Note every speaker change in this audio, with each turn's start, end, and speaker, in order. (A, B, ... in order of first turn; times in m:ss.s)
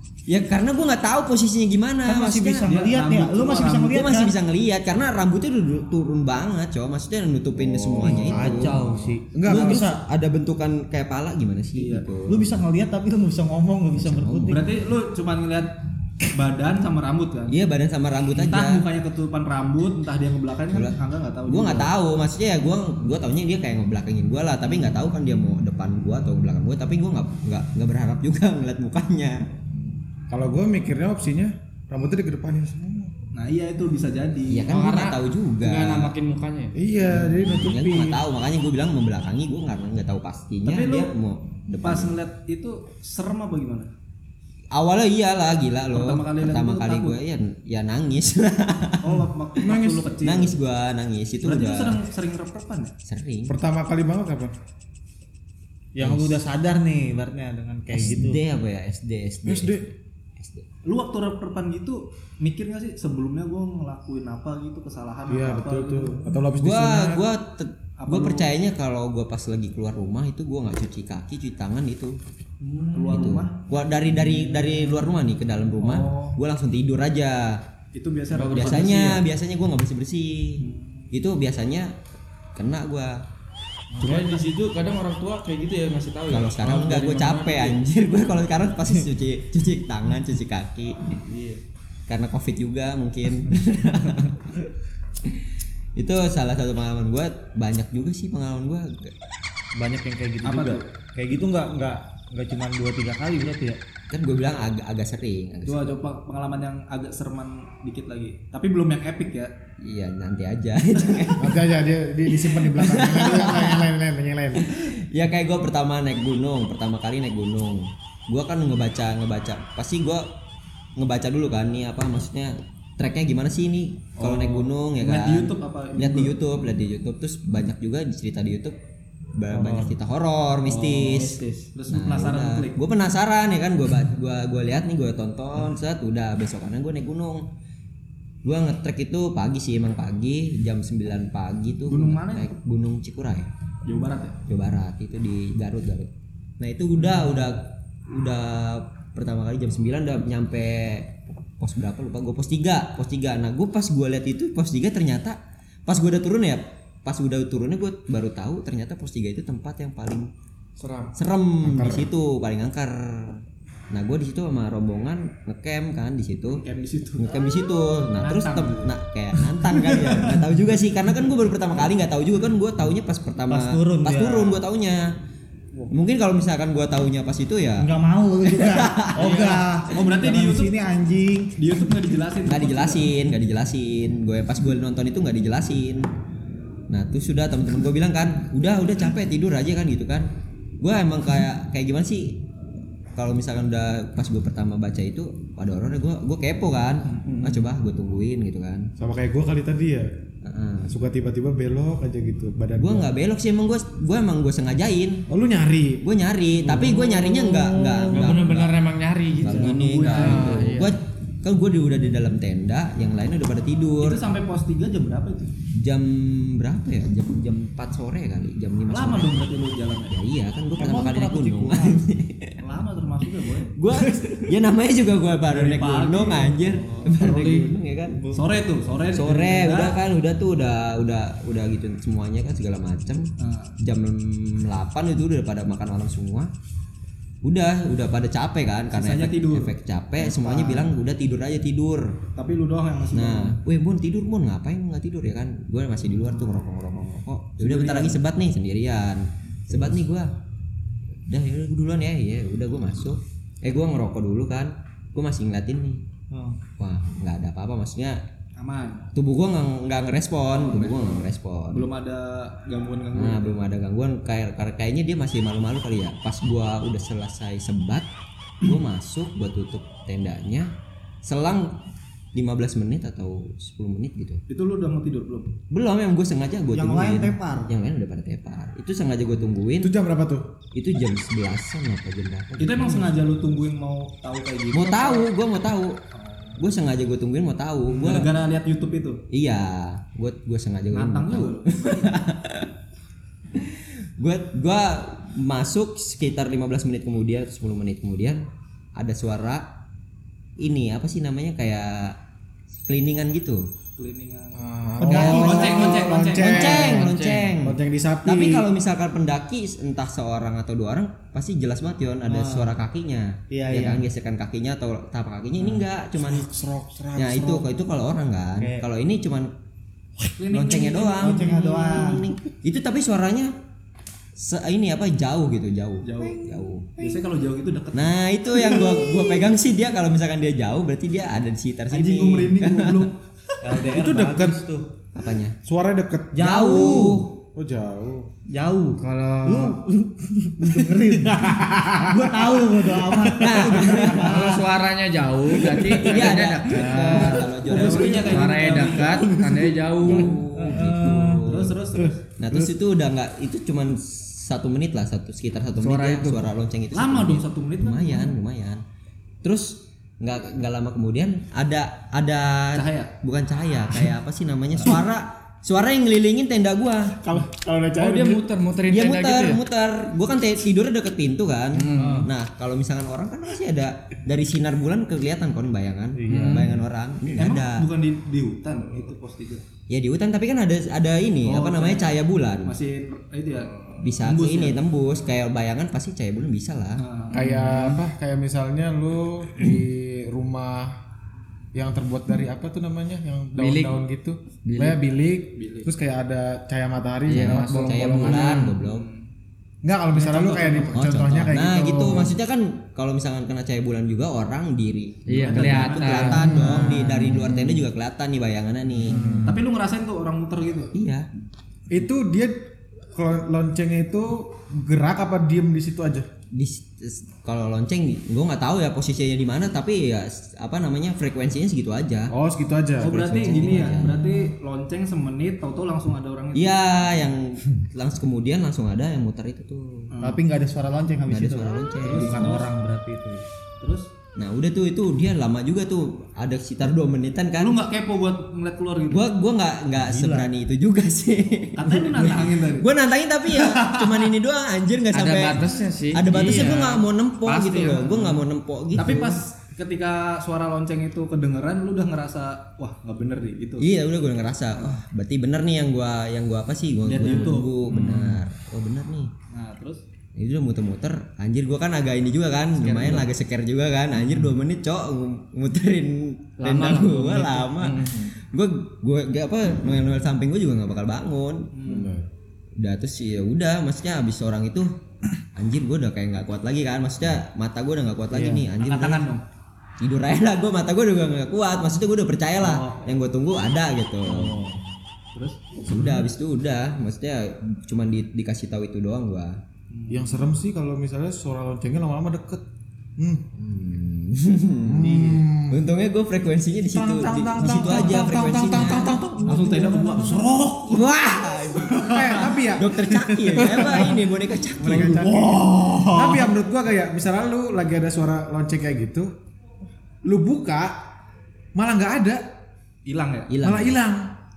0:00.3-0:02.7 A
0:02.0-0:04.3 B
0:02.6-0:03.9 C
0:03.8-0:08.8 A
0:07.7-0:10.0 B
0:08.0-0:08.7 D
0:09.3-0:09.9 D
0:09.4-0:12.6 A
0:11.7-0:12.0 C
0:12.3-0:14.6 B
0:13.9-0:14.7 A
0:14.5-0:17.5 C
0:17.5-0:18.8 A
0:18.3-0:21.9 C
0:20.7-0:29.5 A
0:29.7-0:33.1 D
0:33.3-0:34.7 C
0:34.5-0:36.1 A
0:34.7-0:36.7 E
0:36.7-0:38.2 D
0:37.1-0:42.2 A
0:40.6-0:41.1 C
0:41.8-0:43.9 C
0:44.7-0:49.2 A
0:45.9-0:47.2 C
0:49.0-0:50.6 C
0:49.6-0:50.1 D
0:50.2-0:52.0 A
0:51.4-0:52.9 C
0:53.0-0:53.6 A
0:53.5-0:54.5 D
0:56.0-0:58.4 B
0:56.0-0:56.4 A
0:57.9-1:00.6 A
0:59.4-0:59.9 D
1:00.8-1:06.2 C
1:05.3-1:07.2 D
1:06.6-1:12.2 A
1:08.0-1:08.5 C
1:12.6-1:13.7 C
1:13.0-1:17.6 A
1:15.8-1:16.4 C
1:17.9-1:19.1 C
1:18.3-1:19.2 E
1:18.5-1:21.9 A
1:20.6-1:21.1 C
1:22.5-1:23.2 A
1:24.0-1:27.8 E
1:24.0-1:24.4 C
1:26.3-1:31.2 A
1:31.3-1:31.6 E
1:32.1-1:34.6 A
1:36.0-1:39.1 A
1:39.8-1:43.8 B
1:40.4-1:40.8 C
1:44.1-1:46.0 A
1:45.6-1:49.5 C
1:49.8-1:51.6 A
1:51.4-1:54.6 D
1:52.4-1:53.9 A
1:54.6-2:00.3 A
2:01.0-2:08.8 A
2:04.2-2:06.4 C
2:09.3-2:17.4 A
2:09.5-2:09.9 B
2:10.6-2:12.8 C
2:18.4-2:23.5 A
2:21.9-2:22.5 C
2:23.8-2:24.4 C
2:24.5-2:40.3 A
2:41.1-2:46.6 A
2:41.6-2:42.1 D
2:46.6-2:47.4 C
2:47.2-2:55.1 A
2:48.2-2:50.5 C
2:53.5-2:54.6 B
2:55.9-2:57.9 A
2:57.8-3:01.5 B
2:58.4-2:59.4 A
2:59.2-3:00.7 C
2:59.3-2:59.6 E
3:01.6-3:03.1 C
3:02.4-3:06.1 A
3:06.9-3:12.4 A
3:13.2-3:18.9 A
3:17.0-3:17.7 C
3:19.0-3:20.1 D
3:20.4-3:20.9 A
3:20.9-3:23.1 D
3:22.8-3:25.2 A
3:25.3-3:26.0 D
3:26.0-3:28.8 A
3:26.6-3:28.4 D
3:28.1-3:31.0 E
3:29.4-3:30.7 C
3:29.4-3:34.2 A
3:34.0-3:35.5 C
3:35.8-3:39.5 A
3:38.9-3:40.2 C
3:40.1-3:42.6 A
3:40.8-3:42.0 B
3:42.6-3:43.8 C
3:43.7-3:48.2 A
3:45.5-3:47.1 C
3:47.1-3:47.7 E
3:48.2-3:48.5 B
3:48.3-3:50.0 C
3:49.1-3:56.5 A
3:53.4-3:53.8 C
3:57.4-4:02.2 A
3:58.9-4:00.9 C
4:02.4-4:03.6 C
4:03.1-4:10.3 A
4:07.6-4:08.2 C
4:11.2-4:16.0 A
4:16.3-4:16.6 B
4:16.8-4:18.2 A
4:18.6-4:19.1 C
4:19.1-4:21.9 A
4:20.5-4:23.6 C
4:23.1-4:28.1 A
4:28.6-4:30.7 A
4:31.2-4:31.8 A
4:32.3-4:34.4 A
4:34.5-4:35.5 C
4:35.7-4:39.9 A
4:36.7-4:37.7 B
4:39.8-4:40.5 D
4:40.7-4:43.1 A
4:42.6-4:45.3 C
4:44.7-4:46.0 A
4:46.1-4:46.6 C
4:46.6-4:48.3 A
4:47.9-4:49.2 C
4:49.3-4:52.7 A
4:50.9-4:52.1 C
4:53.5-4:58.4 A
4:59.0-4:59.6 A
5:00.6-5:02.2 A
5:02.7-5:03.7 A
5:04.0-5:06.8 C
5:04.5-5:07.1 D
5:05.0-5:05.8 B
5:05.0-5:16.5 A
5:06.5-5:07.6 E
5:07.6-5:08.7 D
5:12.2-5:12.8 B
5:13.5-5:14.1 B
5:15.6-5:17.7 D
5:17.2-5:19.5 A
5:18.6-5:18.8 B
5:20.4-5:22.2 C
5:20.5-5:23.5 A
5:21.2-5:22.2 B
5:24.4-5:26.9 A
5:26.0-5:29.2 C
5:27.9-5:33.1 A
5:31.9-5:33.6 C
5:33.6-5:34.9 B
5:33.9-5:34.6 D
5:35.1-5:35.6 A
5:35.6-5:38.3 D
5:36.3-5:37.3 B
5:36.4-5:37.4 A
5:38.5-5:44.7 B
5:39.0-5:39.8 E
5:41.1-5:44.0 D
5:43.3-5:44.5 A
5:44.0-5:50.5 E
5:45.8-5:48.9 A
5:46.8-5:47.4 B
5:47.6-5:49.3 C
5:49.2-5:51.4 B
5:50.0-5:51.8 A
5:51.4-5:52.2 C
5:51.9-5:52.7 D
5:52.4-5:58.8 A
5:55.8-5:56.4 D
5:56.9-5:58.4 C
5:59.4-6:07.2 A
6:02.7-6:03.1 C
6:07.2-6:08.4 D
6:08.0-6:09.6 E
6:08.9-6:17.9 A
6:11.7-6:12.3 E
6:12.0-6:12.3 B
6:16.2-6:16.8 B
6:16.3-6:16.8 E
6:17.4-6:19.6 C
6:19.9-6:22.8 A
6:21.4-6:24.8 C
6:24.0-6:27.0 A
6:27.0-6:27.4 C
6:27.3-6:31.0 D
6:27.4-6:28.0 E
6:31.7-6:38.7 D
6:33.6-6:34.0 E
6:34.6-6:35.0 E
6:35.6-6:35.9 C
6:37.3-6:38.7 E
6:37.4-6:39.1 A
6:38.8-6:39.2 C
6:39.8-6:42.4 D
6:40.1-6:41.0 C
6:40.9-6:49.4 A
6:45.3-6:46.8 E
6:45.4-6:46.6 C
6:46.2-6:47.9 D
6:46.5-6:47.4 B
6:49.1-6:49.6 D
6:49.1-6:49.6 B
6:49.4-6:50.9 C
6:50.9-6:51.3 A
6:51.9-6:52.6 D
6:53.1-6:56.3 D
6:56.5-7:02.3 A
7:02.3-7:04.1 D
7:03.0-7:06.9 C
7:03.0-7:04.5 A
7:06.5-7:10.1 A
7:10.1-7:10.4 C
7:10.2-7:13.4 B
7:11.3-7:12.4 A
7:12.0-7:12.7 C
7:12.1-7:12.7 D
7:13.8-7:14.1 C
7:14.4-7:17.7 A
7:17.6-7:19.3 C
7:19.1-7:29.3 A
7:19.9-7:20.5 B
7:21.8-7:22.9 C
7:23.5-7:24.3 C
7:25.1-7:28.4 E
7:29.0-7:33.8 C
7:33.8-7:39.3 A
7:37.1-7:37.8 C
7:37.9-7:38.4 E
7:39.5-7:40.0 C
7:40.4-7:51.7 A
7:42.8-7:43.2 C
7:42.9-7:43.2 E
7:46.6-7:48.3 E
7:51.7-7:52.2 C
7:51.8-7:52.2 D
7:52.8-7:54.9 A
7:55.5-7:59.3 A
7:58.3-7:58.6 B
7:58.5-7:59.4 C
8:00.0-8:04.7 A
8:02.6-8:03.1 C
8:04.3-8:04.8 C
8:05.3-8:05.8 C
8:05.8-8:09.6 A
8:09.9-8:10.5 C
8:10.1-8:12.6 D
8:13.2-8:13.4 D
8:13.5-8:19.2 A
8:14.9-8:15.9 D
8:16.9-8:20.5 D
8:17.6-8:18.8 C
8:19.4-8:21.1 C
8:20.9-8:25.3 A
8:21.9-8:22.3 B
8:22.0-8:24.1 D
8:24.8-8:29.3 D
8:24.9-8:26.5 B
8:30.2-8:30.9 D
8:31.7-8:32.4 D
8:33.0-8:33.5 C
8:33.5-8:34.0 A
8:33.6-8:34.3 D